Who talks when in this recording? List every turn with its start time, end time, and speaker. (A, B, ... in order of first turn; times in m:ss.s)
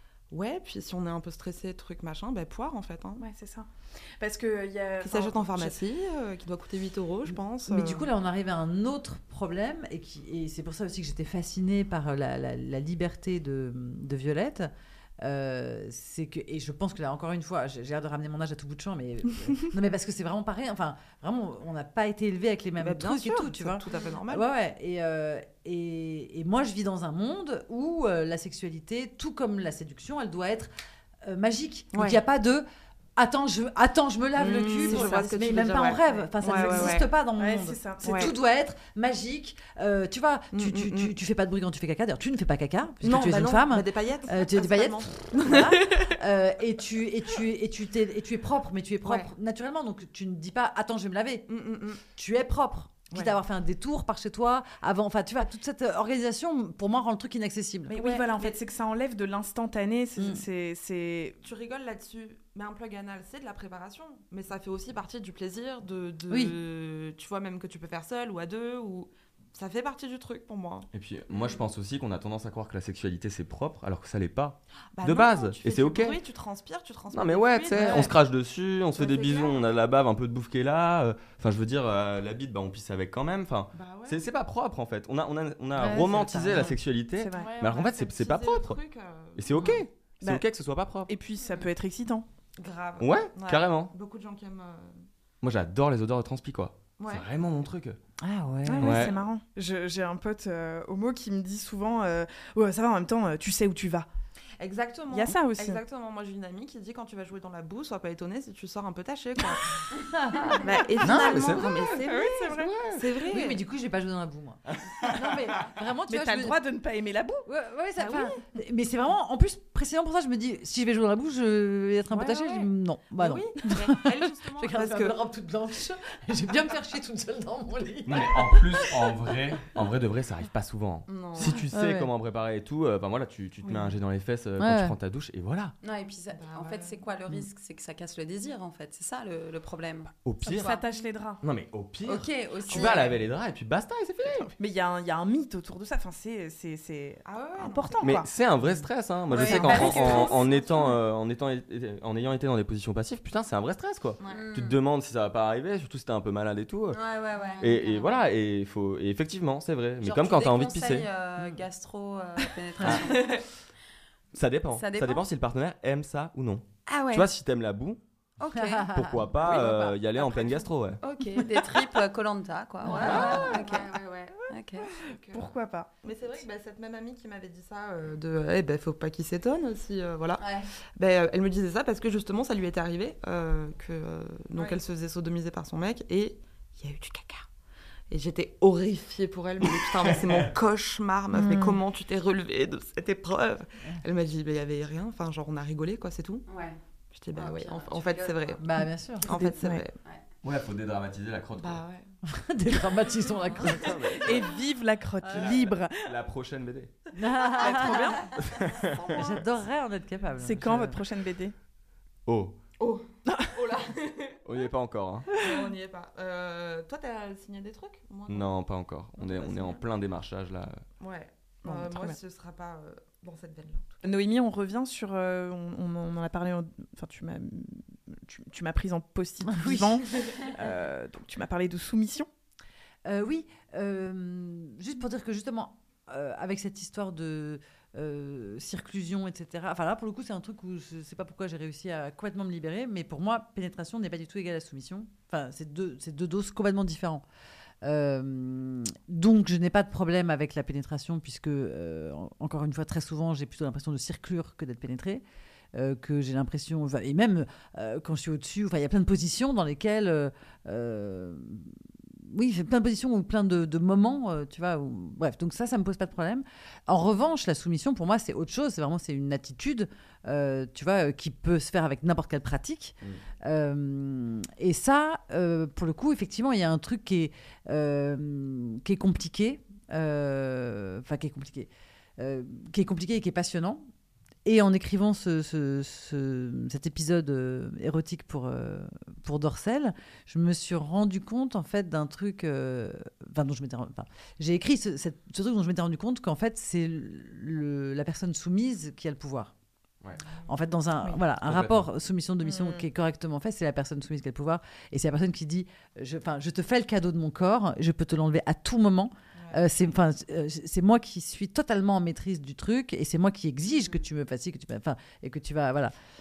0:00.3-0:03.3 A
0:03.2-0:05.8 B
0:05.0-0:08.1 A
0:07.3-0:14.7 C
0:15.2-0:30.7 C
0:22.8-0:24.4 A
0:31.2-0:32.6 C
0:31.9-0:32.2 A
0:33.2-0:51.5 C
0:34.3-0:37.0 A
0:34.8-0:35.3 B
0:36.1-0:38.3 B
0:38.0-0:38.3 A
0:40.5-0:41.1 A
0:43.0-0:46.1 A
0:49.0-0:49.3 A
0:51.5-0:52.0 A
0:52.1-0:58.5 C
0:57.9-1:01.4 B
1:00.2-1:00.4 C
1:01.4-1:11.6 A
1:10.9-1:16.2 D
1:14.9-1:18.2 A
1:17.1-1:28.8 D
1:17.8-1:18.1 C
1:19.0-1:19.6 A
1:23.7-1:24.2 A
1:25.8-1:26.7 C
1:27.2-1:27.5 B
1:27.4-1:29.8 A
1:29.4-1:31.1 D
1:31.1-1:32.2 B
1:31.4-1:31.7 A
1:32.6-1:35.0 A
1:33.0-1:33.9 D
1:35.4-1:38.0 D
1:37.0-1:37.3 A
1:38.2-1:39.1 C
1:38.7-1:44.1 B
1:38.8-1:39.2 D
1:44.6-1:49.8 A
1:45.1-1:45.8 B
1:50.2-1:50.5 C
1:50.5-1:53.6 A
1:51.0-1:51.7 D
1:52.0-1:52.8 B
1:52.6-1:56.6 C
1:56.1-1:57.5 B
1:57.4-2:08.8 C
1:58.0-1:58.4 B
2:02.1-2:05.2 A
2:08.0-2:15.7 D
2:11.1-2:11.6 E
2:11.2-2:11.5 A
2:11.7-2:12.1 C
2:14.6-2:15.0 C
2:15.8-2:20.1 E
2:16.3-2:17.0 A
2:20.2-2:20.8 D
2:20.4-2:21.4 B
2:21.4-2:24.5 D
2:22.0-2:23.1 E
2:22.7-2:23.1 B
2:24.6-2:28.2 B
2:27.2-2:28.2 A
2:28.0-2:37.0 D
2:29.3-2:30.4 B
2:29.3-2:31.0 A
2:29.3-2:30.3 E
2:34.2-2:34.5 A
2:34.3-2:34.8 E
2:36.9-2:38.1 E
2:37.6-2:41.1 D
2:40.0-2:40.6 C
2:40.2-2:43.5 E
2:41.4-2:41.6 C
2:42.8-2:43.1 C
2:44.3-2:48.0 D
2:44.7-2:45.3 E
2:46.9-2:47.3 E
2:48.4-2:48.9 E
2:48.5-2:50.6 C
2:48.9-2:51.0 D
2:51.0-2:54.9 E
2:52.8-2:53.8 C
2:53.0-2:53.8 A
2:55.0-2:55.5 A
2:55.3-2:56.4 B
2:56.0-3:07.5 A
3:00.4-3:00.7 E
3:08.1-3:16.5 A
3:09.7-3:10.5 D
3:11.3-3:11.8 B
3:16.5-3:16.8 E
3:17.1-3:20.0 A
3:17.3-3:18.6 E
3:18.6-3:19.2 C
3:19.3-3:19.8 B
3:20.4-3:21.8 D
3:21.6-3:22.1 A
3:22.2-3:23.9 C
3:23.5-3:23.8 A
3:23.9-3:24.5 D
3:24.2-3:26.0 B
3:25.3-3:27.0 D
3:27.2-3:28.2 C
3:27.6-3:28.3 B
3:28.4-3:29.4 D
3:29.2-3:31.0 C
3:30.4-3:31.5 B
3:32.2-3:32.6 D
3:32.8-3:34.4 A
3:33.2-3:33.5 B
3:34.4-3:35.3 D
3:35.3-3:38.5 A
3:38.3-3:40.8 D
3:39.2-3:39.8 A
3:41.0-3:44.0 A
3:41.6-3:42.2 B
3:44.0-3:52.3 B
3:49.5-3:50.1 C
3:53.0-4:07.2 C
4:07.8-4:21.8 C
4:22.3-4:43.9 C
4:44.4-4:59.5 C
5:00.5-5:15.9 C
5:01.4-5:01.8 D
5:02.4-5:02.9 A
5:09.4-5:09.9 A